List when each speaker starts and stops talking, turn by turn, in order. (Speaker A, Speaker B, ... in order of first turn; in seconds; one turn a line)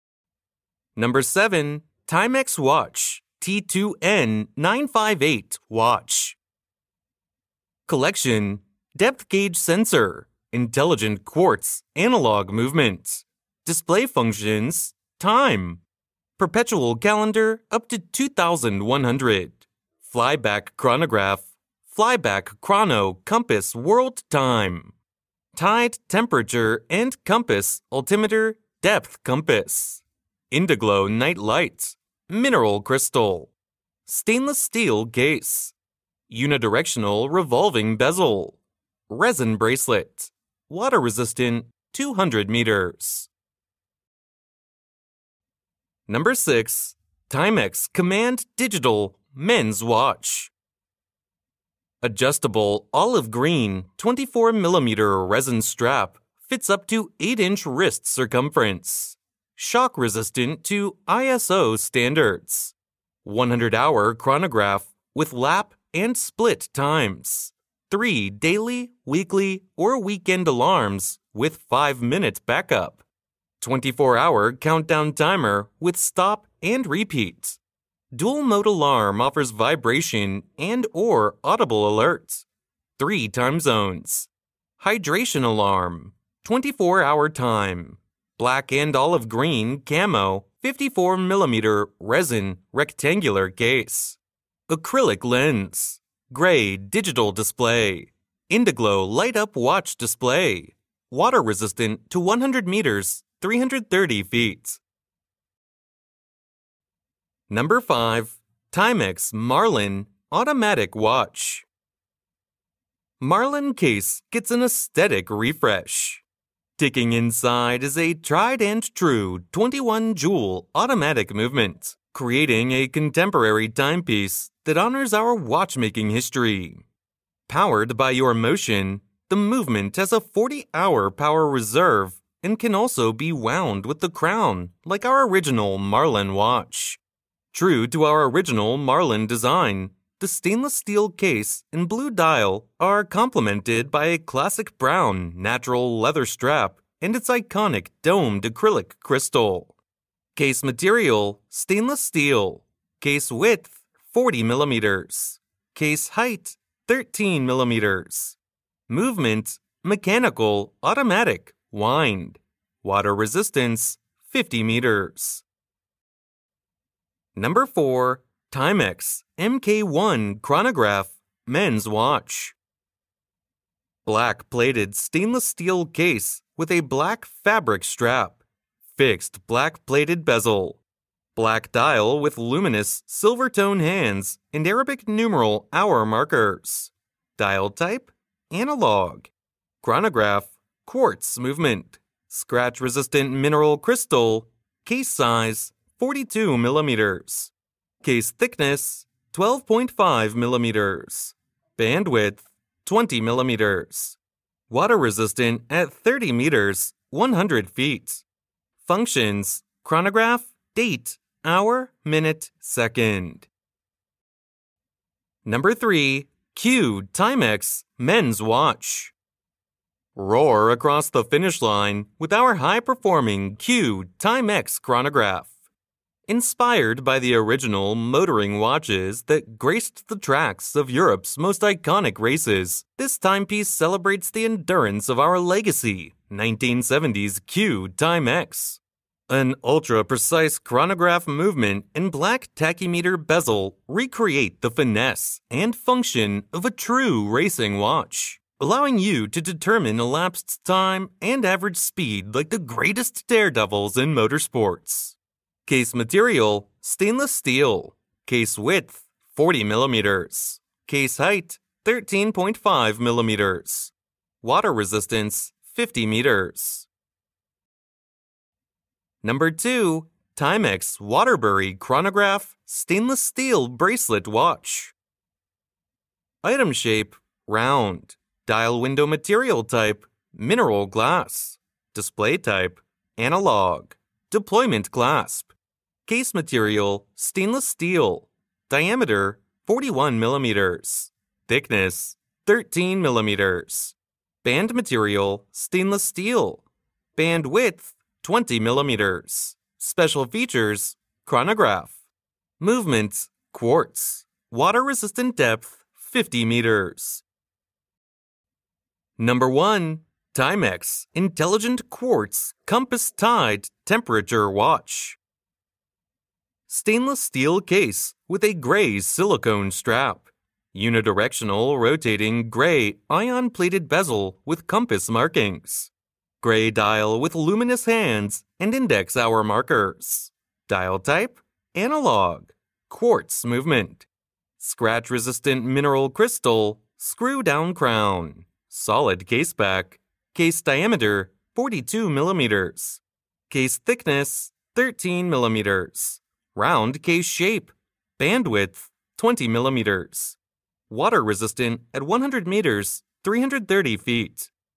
Speaker A: 1.0-6.4
Speaker A: 7.9-15.8
Speaker A: 16.4-24.9
Speaker A: 25.5-33.5
Speaker A: 34.1-35.8
Speaker A: 36.3-43.3
Speaker A: 46.1-50.5
Speaker A: 52.0-73.0
Speaker A: 73.6-77.6
Speaker A: 78.1-82.5
Speaker A: 83.0-104.8
Speaker A: 107.5-111.7
Speaker A: 113.2-116.2
Speaker A: 116.8-126.8
Speaker A: 127.5-137.0
Speaker A: 137.5-149.8
Speaker A: 150.3-158.4
Speaker A: 158.9-165.4
Speaker A: 167.3-172.6
Speaker A: 174.0-180.8
Speaker A: 181.3-189.3
Speaker A: 189.8-204.2
Speaker A: 204.7-208.2
Speaker A: 208.8-213.5
Speaker A: 215.4-219.1
Speaker A: 220.2-225.5
Speaker A: 226.3-266.9
Speaker A: 269.2-274.9
Speaker A: 276.4-285.5
Speaker A: 286.1-296.6
Speaker A: 297.1-302.0
Speaker A: 302.6-307.2
Speaker A: 309.2-315.2
Speaker A: 316.7-334.1
Speaker A: 334.6-350.4
Speaker A: 350.9-354.5